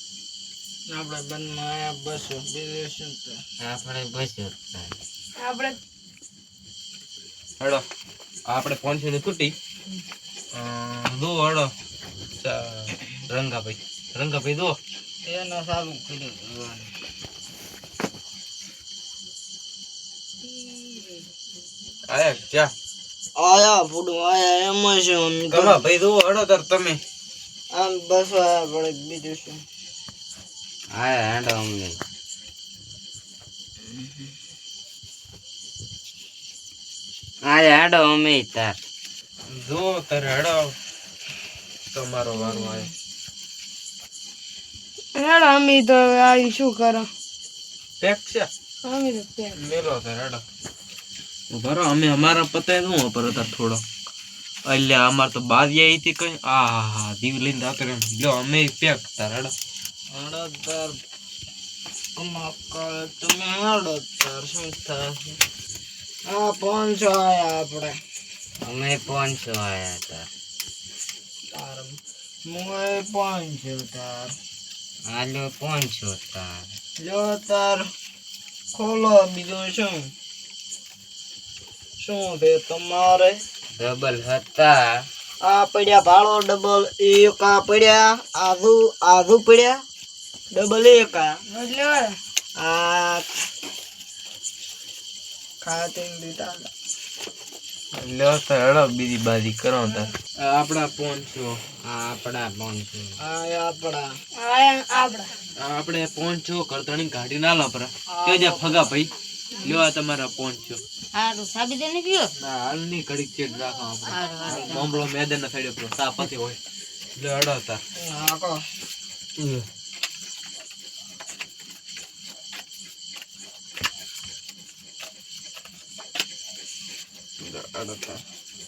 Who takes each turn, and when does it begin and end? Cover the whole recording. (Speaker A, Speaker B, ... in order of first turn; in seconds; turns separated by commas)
Speaker A: 0.9-3.4, Speaker B: 3.6-5.0, Speaker C: 5.4-5.8, Speaker D: 8.5-9.5, Speaker D: 10.5-11.7, Speaker D: 12.4-14.8, Speaker A: 15.3-16.9, Speaker A: 20.8-21.1, Speaker D: 22.1-22.7, Speaker A: 23.4-25.8, Speaker D: 25.5-27.0, Speaker A: 27.7-29.6, Speaker B: 31.0-32.0, Speaker A: 33.8-34.3, Speaker B: 37.5-38.8, Speaker D: 39.5-40.7, Speaker D: 41.9-42.9, Speaker C: 45.2-47.1, Speaker D: 48.0-48.5, Speaker C: 48.9-49.6, Speaker D: 49.6-50.4, Speaker D: 51.5-53.8, Speaker D: 54.7-59.5, Speaker A: 60.1-61.0, Speaker A: 62.2-65.4, Speaker A: 66.3-68.0, Speaker B: 68.6-70.3, Speaker A: 71.5-72.0, Speaker A: 72.5-74.3, Speaker B: 75.1-76.7, Speaker A: 77.0-77.9, Speaker A: 78.8-80.1, Speaker A: 82.0-83.3, Speaker B: 83.8-84.8, Speaker A: 85.4-89.8, Speaker A: 90.5-91.3, Speaker C: 91.5-92.1, Speaker A: 92.6-93.3, Speaker A: 95.6-96.7, Speaker D: 98.0-101.5, Speaker B: 101.9-103.2, Speaker A: 103.2-104.1, Speaker C: 104.4-105.3, Speaker D: 105.6-109.1, Speaker A: 108.1-108.9, Speaker D: 109.6-110.8, Speaker B: 111.2-112.3, Speaker D: 112.4-116.6, Speaker B: 114.1-114.9, Speaker D: 117.2-117.8, Speaker A: 118.0-118.6, Speaker D: 119.4-119.6, Speaker D: 127.4-128.2